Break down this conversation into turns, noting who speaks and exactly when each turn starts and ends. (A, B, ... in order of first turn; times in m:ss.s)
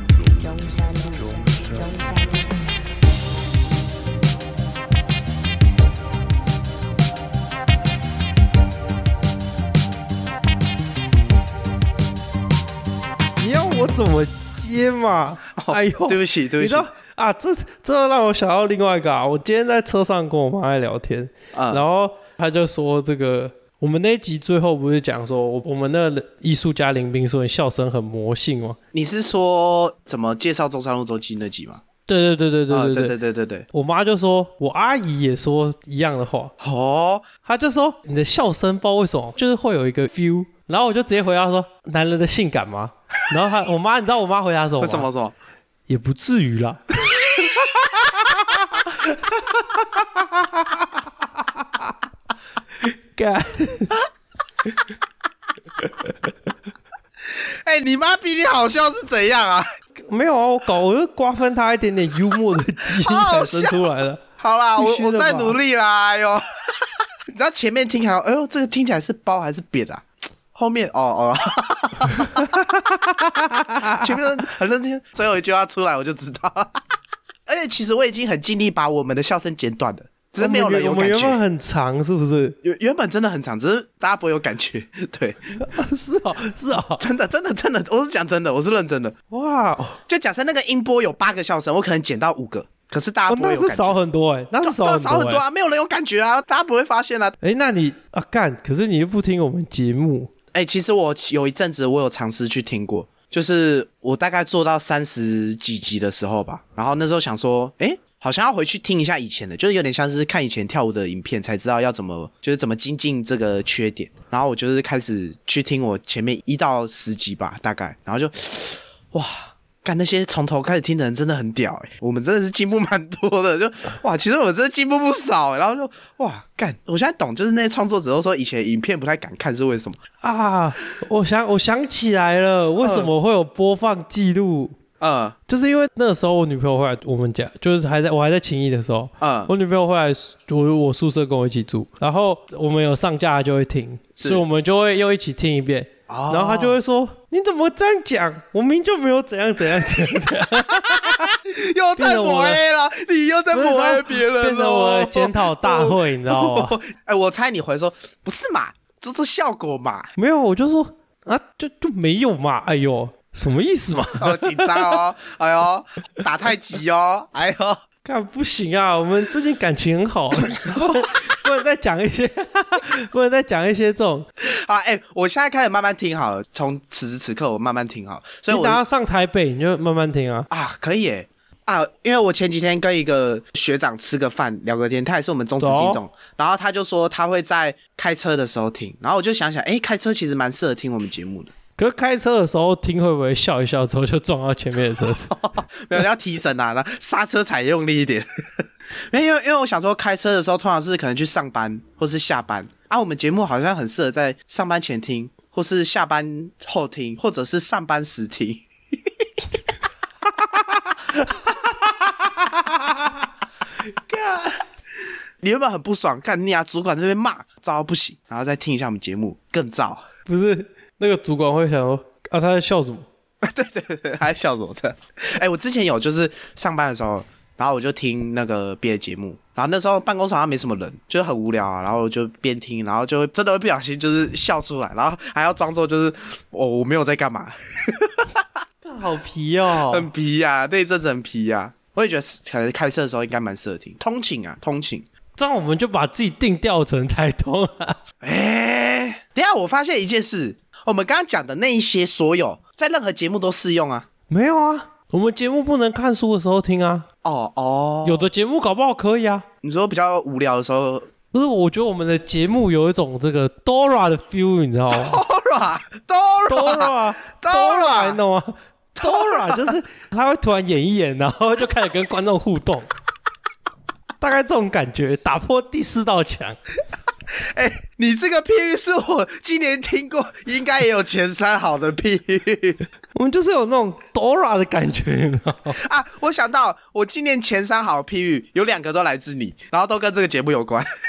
0:00.2-0:02.6 A
0:13.4-0:28.8 B
0:15.6-0:16.9 C
0:21.5-0:21.8 C
0:28.9-0:31.8 C
0:32.1-0:33.2 B
0:32.7-0:33.7 C
0:33.7-0:36.5 B
0:36.6-0:37.3 C
0:37.4-0:45.1 B
0:44.8-0:45.3 C
0:45.9-0:46.8 B
0:47.1-0:48.7 C
0:49.0-0:50.0 B
0:52.8-0:54.0 B
0:55.8-0:56.2 B
0:57.2-0:59.7 C
1:00.1-1:04.2 B
1:02.9-1:03.8 C
1:04.4-1:12.8 C
1:04.8-1:05.6 B
1:12.2-1:14.1 B
1:13.8-1:16.8 C
1:17.5-1:21.4 C
1:20.4-1:22.6 B
1:22.6-1:25.4 C
1:25.6-1:27.0 B
1:27.0-1:29.2 C
1:29.3-1:30.0 B
1:30.1-1:34.0 C
1:33.3-1:35.4 B
1:34.6-1:37.4 C
1:37.4-1:40.3 B
1:40.5-2:10.0 C
2:10.2-2:14.8 B
2:12.8-2:13.1 C
2:15.0-2:15.4 C
2:15.5-2:31.3 B
2:19.2-2:19.5 C
2:24.2-2:24.4 C
2:26.1-2:26.8 C
2:30.6-2:40.1 C
2:32.0-2:32.6 B
2:33.5-2:36.8 B
2:40.2-2:45.0 B
2:44.2-2:47.8 C
2:48.0-2:54.3 B
2:50.5-2:51.1 C
2:54.4-2:58.8 C
2:58.5-3:00.5 B
3:00.5-3:11.5 C
3:05.6-3:06.0 B
3:11.8-3:15.4 B
3:15.3-3:18.3 C
3:19.1-3:28.6 C
3:31.2-3:33.2 B
3:34.1-3:34.6 B
3:35.4-3:40.0 C
3:40.3-3:43.1 B
3:43.4-3:58.4 C
3:58.8-4:00.1 B
3:59.9-4:05.1 C
4:05.4-4:08.0 B
4:08.2-4:14.1 C
4:14.3-4:17.1 B
4:17.2-4:18.2 C
4:18.0-4:19.5 B
4:19.6-4:21.1 C
4:21.3-4:25.2 B
4:24.9-4:28.2 C
4:26.5-4:32.9 B
4:29.0-4:29.8 C
4:34.2-4:36.6 B
4:37.3-4:42.8 C
4:43.2-4:45.8 B
4:45.8-4:50.9 C